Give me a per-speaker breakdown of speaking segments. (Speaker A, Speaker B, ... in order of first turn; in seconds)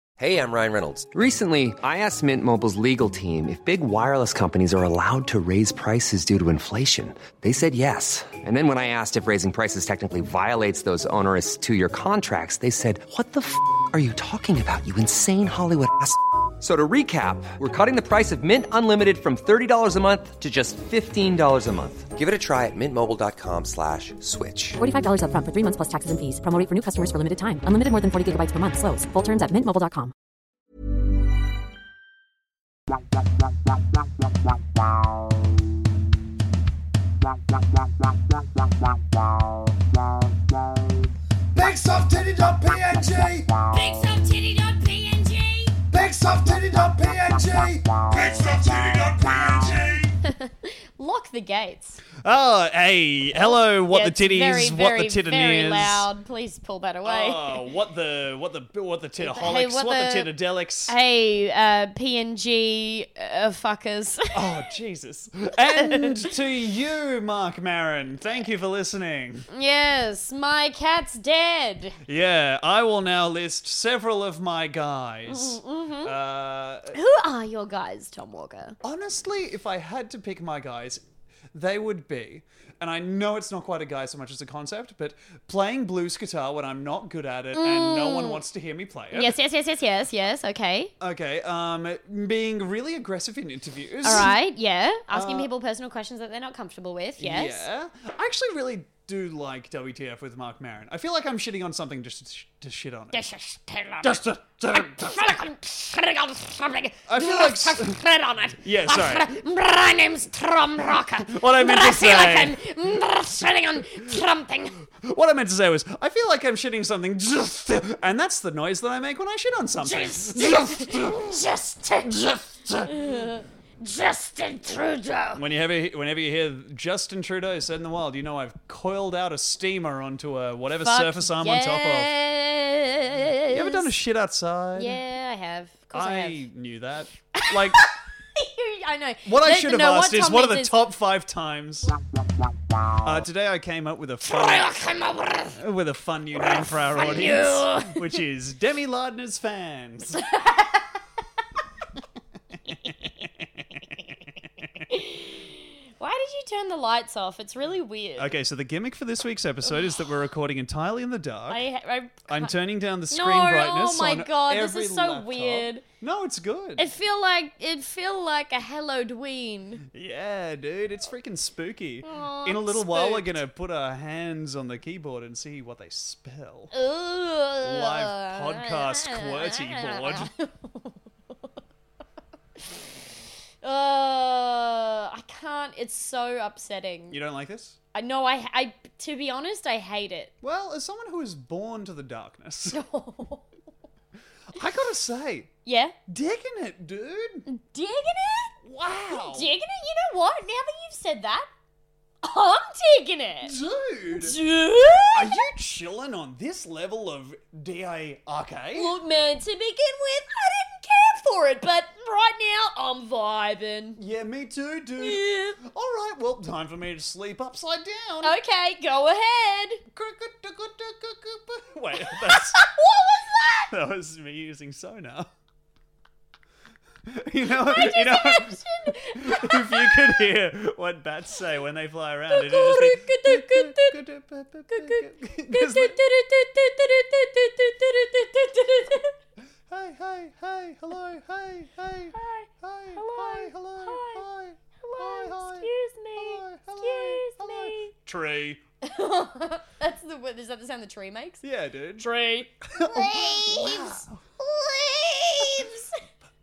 Speaker A: 0.2-24.8
Speaker B: 24.8-30.1
Speaker C: 41.5-43.5, 45.9-50.1
Speaker D: 43.7-45.8, 50.2-52.0, 53.3-57.6, 59.2-60.3, 60.9-64.6, 65.6-66.2, 69.5-72.0, 75.3-76.1, 76.9-78.8, 87.5-88.4, 89.1-90.9, 94.0-97.7, 103.1-114.8, 119.8-125.4, 130.8-133.9, 134.8-136.4, 137.3-140.8, 144.2-145.6, 146.9-148.1, 150.2-150.8, 154.9-158.3, 161.5-162.5, 163.1-165.8, 166.8-169.9, 172.0-173.4, 176.7-180.9, 183.6-187.2, 187.9-190.3, 192.7-193.4, 195.6-195.9, 197.5-198.5, 199.1-201.5, 202.2-203.6, 204.1-205.4, 208.7-214.0, 215.0-215.6, 218.2-219.8, 222.1-223.7, 227.5-230.2, 232.3-234.0, 234.7-239.1, 242.1-244.2, 244.8-247.9, 248.8-251.4, 252.0-256.0
Speaker E: 52.2-56.1, 57.0-60.9, 64.3-69.5, 72.0-77.0, 78.8-89.4, 91.0-94.3, 95.1-95.5, 97.2-103.3, 104.0-105.3, 107.1-109.4, 111.2-112.6, 114.9-121.4, 122.0-123.2, 125.3-132.1, 133.5-135.0, 135.9-137.9, 139.2-141.9, 143.0-144.7, 145.5-150.2, 158.2-161.6, 162.3-166.9, 169.9-176.7, 177.6-180.3, 187.1-187.8, 190.4-192.8, 194.5-195.5, 196.1-197.4, 198.6-199.5, 203.4-204.4, 205.1-208.9, 214.0-218.4, 219.9-222.7, 223.7-225.3, 227.1-236.0, 239.7-248.6, 251.4-252.1, 252.7-254.2, 255.4-255.7